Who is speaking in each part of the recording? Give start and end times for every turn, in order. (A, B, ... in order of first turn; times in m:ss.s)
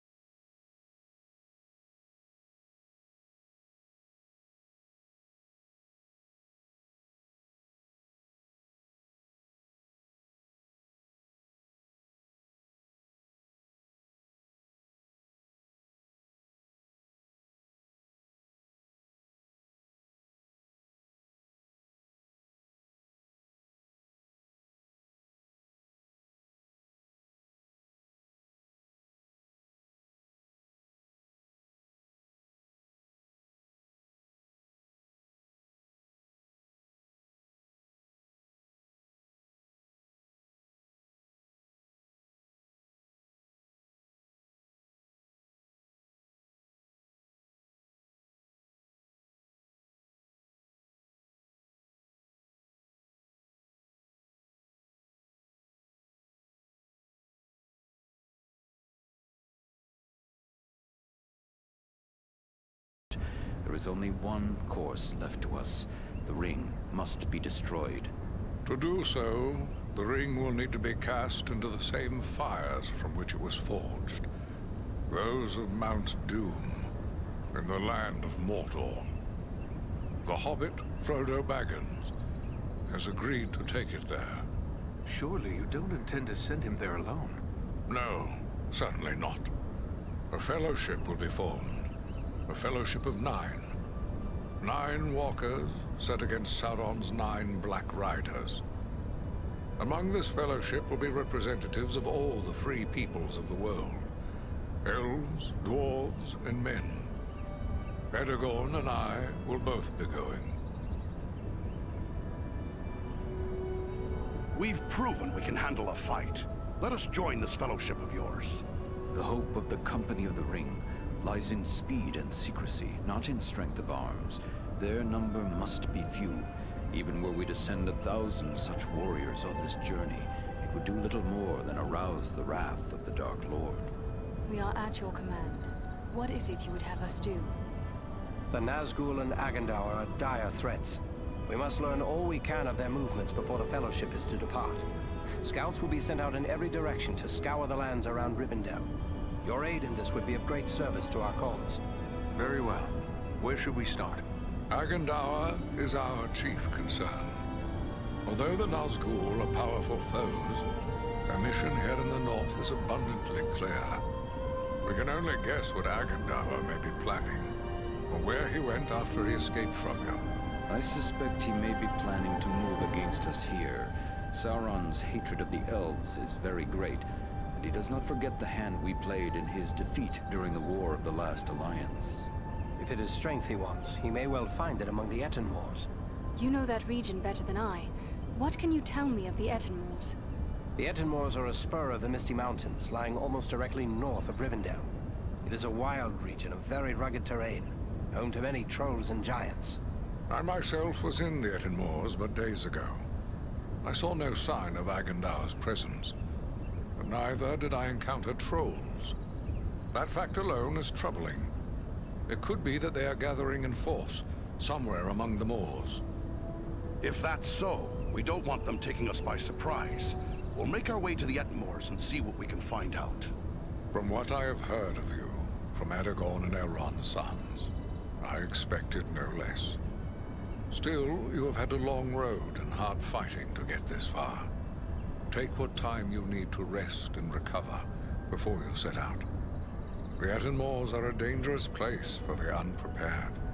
1:03.1-1:08.1 A
1:08.6-1:14.3 B
1:15.1-1:16.9 B
1:17.5-1:19.1 B
1:20.2-1:22.1 B
1:22.9-1:24.4 B
1:25.0-1:27.4 C
1:27.9-1:29.5 B
1:30.3-1:31.9 B
1:32.5-1:33.7 B
1:34.6-1:38.6 B
1:39.8-1:44.0 B
1:44.8-1:47.1 B
1:48.1-1:50.6 B
1:54.5-1:58.6 D
1:59.1-2:13.9 A
2:14.4-2:17.5 E
2:18.5-2:24.8 F
2:25.4-2:28.9 F
2:29.4-2:31.8 F
2:32.3-2:34.2 C
2:34.7-2:37.4 B
2:38.2-2:40.6 B
2:41.3-2:44.0 B
2:44.8-2:47.5 B
2:48.1-2:50.3 B
2:50.7-3:02.3 A
3:02.8-3:05.9 F
3:06.4-3:10.2 E
3:10.8-3:14.9 F
3:15.4-3:19.8 F
3:20.3-3:23.0 B
3:23.8-3:26.1 B
3:27.0-3:29.2 B
3:29.9-3:31.5 B
3:32.3-3:36.0 B
3:37.0-3:43.3 D
3:43.9-3:49.8 B
3:50.7-3:54.5 B
3:55.3-3:59.3 B
4:00.2-4:03.4 B